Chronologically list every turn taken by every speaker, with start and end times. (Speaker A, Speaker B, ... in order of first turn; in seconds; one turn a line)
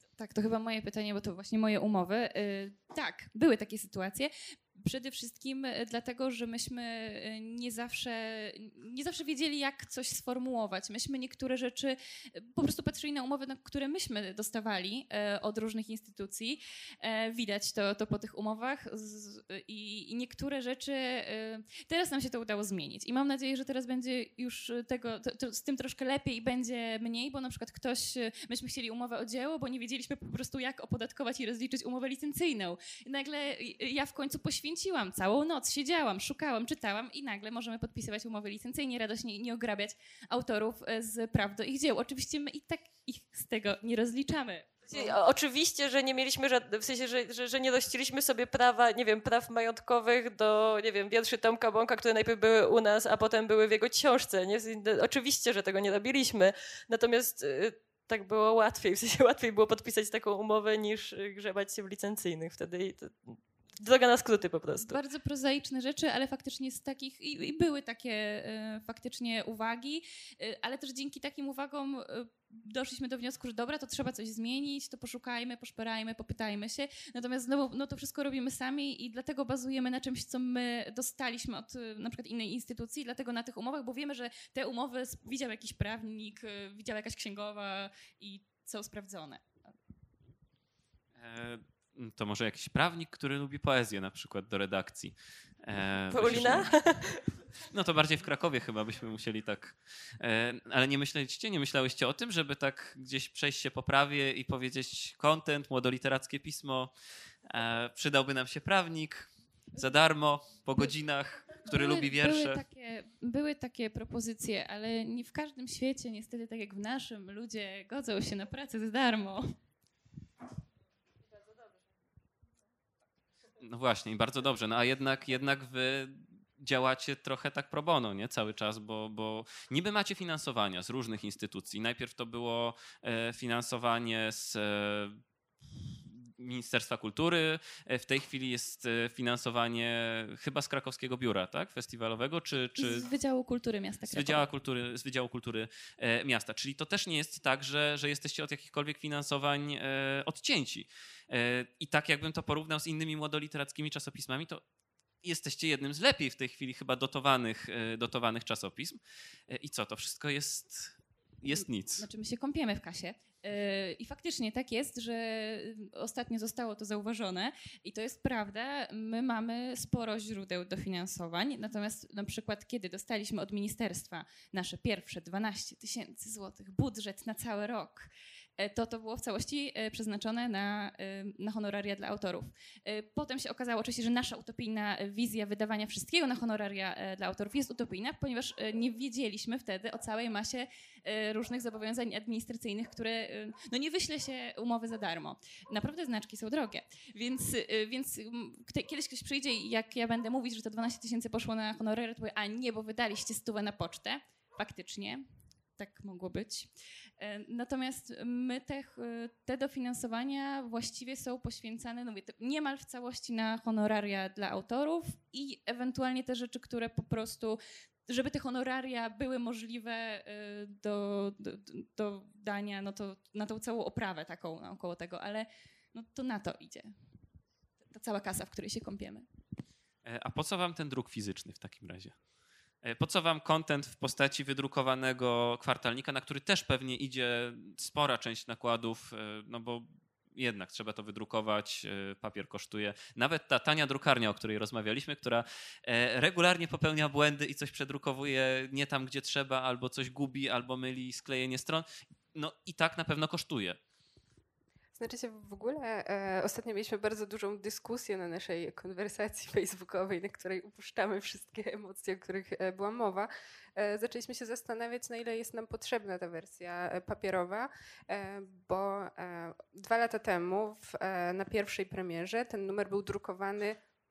Speaker A: 0.2-45.2
Speaker B: 44.9-65.0
Speaker A: 64.8-89.5
Speaker C: 91.2-96.7
Speaker B: 96.1-97.2
Speaker C: 97.6-106.9
Speaker C: 107.5-112.6
Speaker A: 111.7-119.5
Speaker C: 123.6-135.2
Speaker C: 136.4-143.1
Speaker A: 142.8-144.4
Speaker C: 144.1-154.6
Speaker C: 155.2-162.1
Speaker A: 161.9-205.2
Speaker A: 205.8-217.6
Speaker A: 218.1-226.9
Speaker A: 227.9-229.2
Speaker C: 230.0-232.1
Speaker C: 232.8-253.8
Speaker D: 254.9-273.8